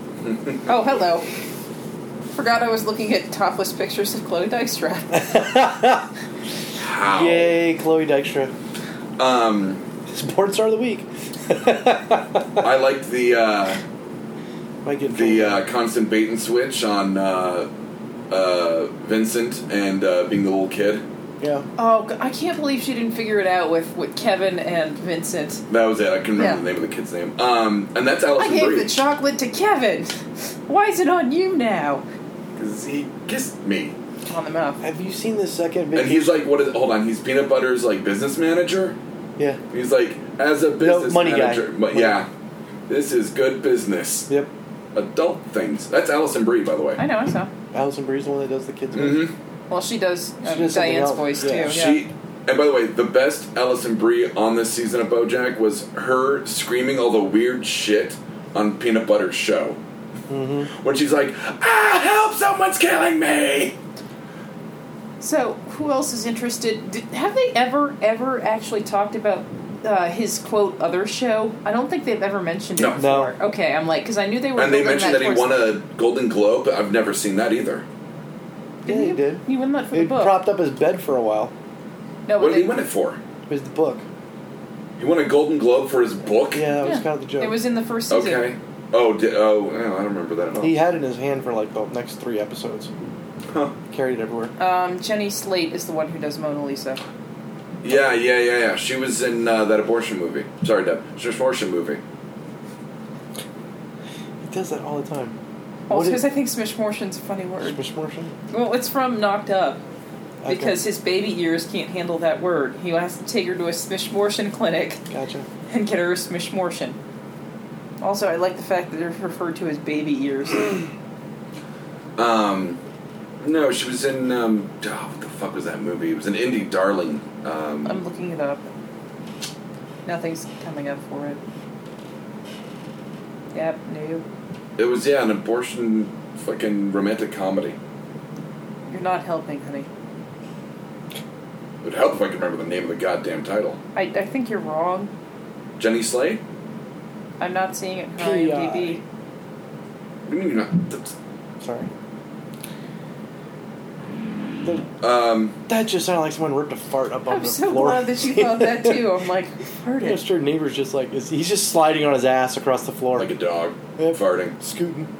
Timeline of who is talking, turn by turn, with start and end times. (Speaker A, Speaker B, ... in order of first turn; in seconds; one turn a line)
Speaker A: 0.2-0.7
Speaker B: 0.7-1.3
Speaker B: 2.3-5.5
Speaker C: 5.1-6.1
Speaker A: 6.8-7.6
Speaker C: 7.0-8.5
Speaker A: 9.2-9.8
Speaker C: 10.1-12.7
Speaker A: 12.6-13.8
Speaker C: 14.8-15.6
Speaker A: 15.1-17.7
Speaker A: 18.3-21.0
Speaker C: 21.4-21.7
Speaker B: 21.8-25.6
Speaker A: 25.7-28.9
Speaker B: 26.3-26.6
Speaker B: 28.4-32.0
Speaker A: 32.5-33.9
Speaker B: 34.3-34.8
Speaker C: 34.8-36.4
Speaker A: 35.9-39.0
Speaker A: 39.7-42.3
Speaker C: 40.8-42.2
Speaker A: 42.9-44.3
Speaker A: 44.9-47.0
Speaker B: 47.0-47.5
Speaker C: 47.7-49.3
Speaker A: 48.9-49.3
Speaker B: 49.7-52.0
Speaker C: 50.4-51.8
Speaker A: 51.6-59.8
Speaker C: 60.3-60.7
Speaker A: 60.8-63.7
Speaker B: 65.2-75.6
Speaker C: 73.0-73.3
Speaker A: 74.5-77.8
Speaker B: 78.8-80.4
Speaker C: 78.8-81.5
Speaker B: 82.3-82.7
Speaker A: 82.4-83.2
Speaker C: 83.5-84.0
Speaker A: 85.0-86.7
Speaker C: 86.5-87.6
Speaker B: 86.8-88.5
Speaker A: 88.1-90.7
Speaker C: 90.6-92.9
Speaker C: 93.9-94.5
Speaker B: 94.6-97.0
Speaker A: 97.8-102.0
Speaker C: 97.9-98.2
Speaker C: 104.4-105.4
Speaker B: 105.9-107.8
Speaker C: 105.9-106.2
Speaker C: 107.6-108.3
Speaker B: 108.5-109.8
Speaker C: 110.4-110.8
Speaker B: 110.5-115.0
Speaker C: 115.1-115.5
Speaker B: 115.7-117.0
Speaker B: 118.0-120.8
Speaker A: 122.2-122.8
Speaker A: 123.4-128.0
Speaker B: 127.8-128.7
Speaker B: 130.1-131.4
Speaker B: 133.5-134.2
Speaker A: 134.8-137.8
Speaker B: 138.9-139.9
Speaker A: 141.8-143.8
Speaker B: 143.9-145.1
Speaker A: 145.8-146.4
Speaker B: 147.4-149.0
Speaker C: 148.2-149.0
Speaker A: 150.2-151.1
Speaker C: 151.6-151.9
Speaker C: 154.6-154.9
Speaker A: 155.0-155.6
Speaker C: 155.7-159.0
Speaker B: 157.3-160.2
Speaker C: 160.0-163.3
Speaker A: 163.2-164.6
Speaker C: 164.0-165.1